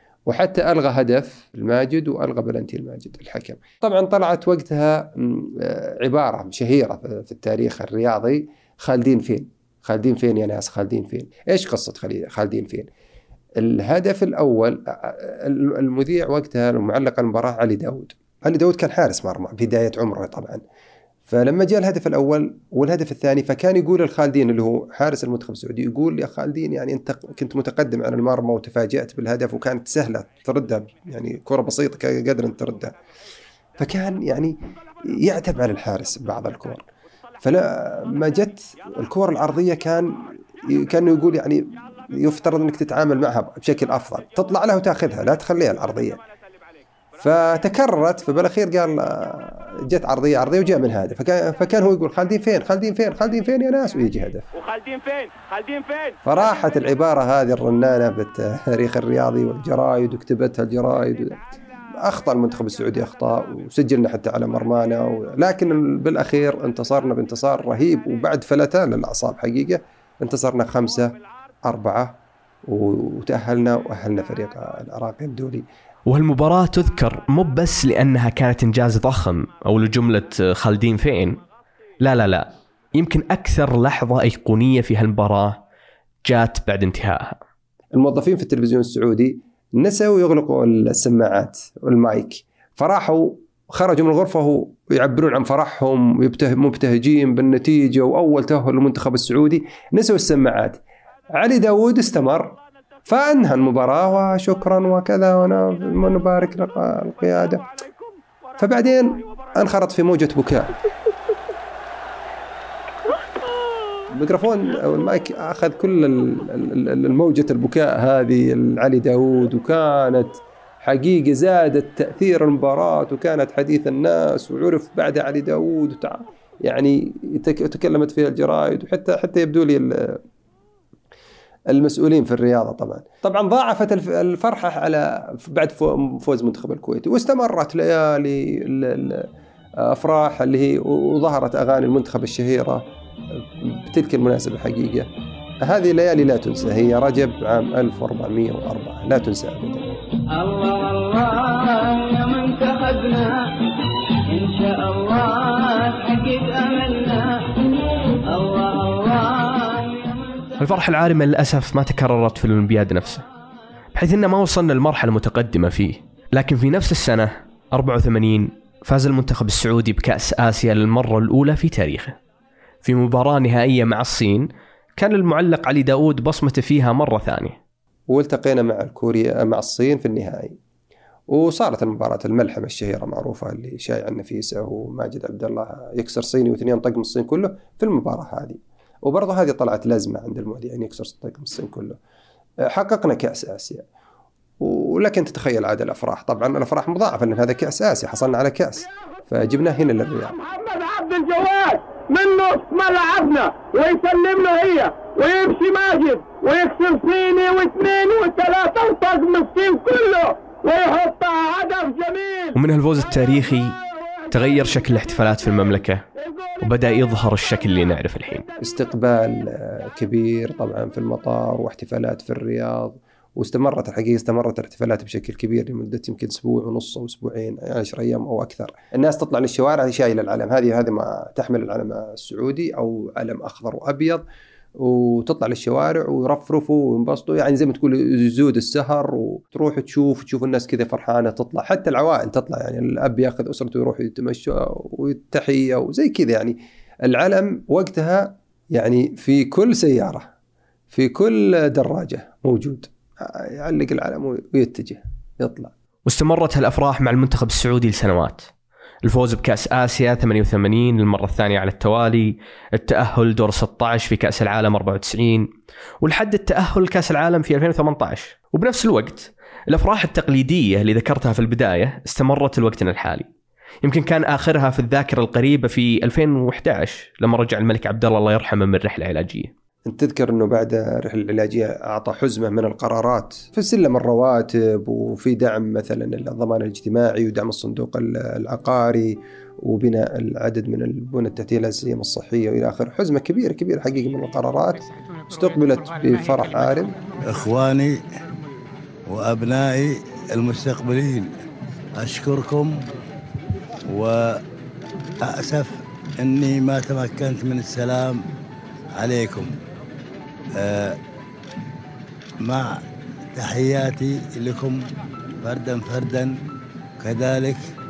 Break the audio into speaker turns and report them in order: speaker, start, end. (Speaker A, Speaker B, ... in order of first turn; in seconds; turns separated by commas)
Speaker A: 0.3-12.9, Speaker A: 13.6-20.6, Speaker A: 21.3-33.0, Speaker A: 33.8-36.9, Speaker A: 37.4-46.2, Speaker A: 47.2-54.5, Speaker A: 56.2-61.4, Speaker A: 62.0-75.7, Speaker B: 76.1-81.4, Speaker B: 82.0-85.6, Speaker B: 86.2-87.4, Speaker A: 87.9-100.8, Speaker A: 101.3-107.7, Speaker A: 108.6-110.8, Speaker A: 114.1-130.2, Speaker A: 131.7-139.3, Speaker A: 139.8-145.1, Speaker A: 145.6-149.9, Speaker C: 150.3-153.6, Speaker C: 154.2-160.8, Speaker B: 160.6-163.2, Speaker B: 163.9-172.2, Speaker B: 172.8-177.6, Speaker A: 178.1-180.6, Speaker A: 181.3-192.0, Speaker A: 192.6-193.8, Speaker A: 194.6-200.3, Speaker D: 200.4-212.6, Speaker B: 212.6-213.8, Speaker B: 214.3-216.0, Speaker B: 216.6-218.5, Speaker A: 218.6-234.2, Speaker A: 234.8-250.3, Speaker A: 250.9-255.7, Speaker B: 256.1-258.5, Speaker B: 259.0-265.5, Speaker B: 266.0-273.3, Speaker B: 273.8-279.5, Speaker A: 279.9-297.0, Speaker E: 297.3-298.0, Speaker E: 299.1-301.3, Speaker E: 302.0-302.7, Speaker E: 303.9-304.4, Speaker E: 305.2-308.2, Speaker E: 308.9-309.5, Speaker E: 310.6-311.0, Speaker E: 312.4-312.8, Speaker E: 313.4-314.8, Speaker E: 315.4-316.3, Speaker E: 317.0-317.6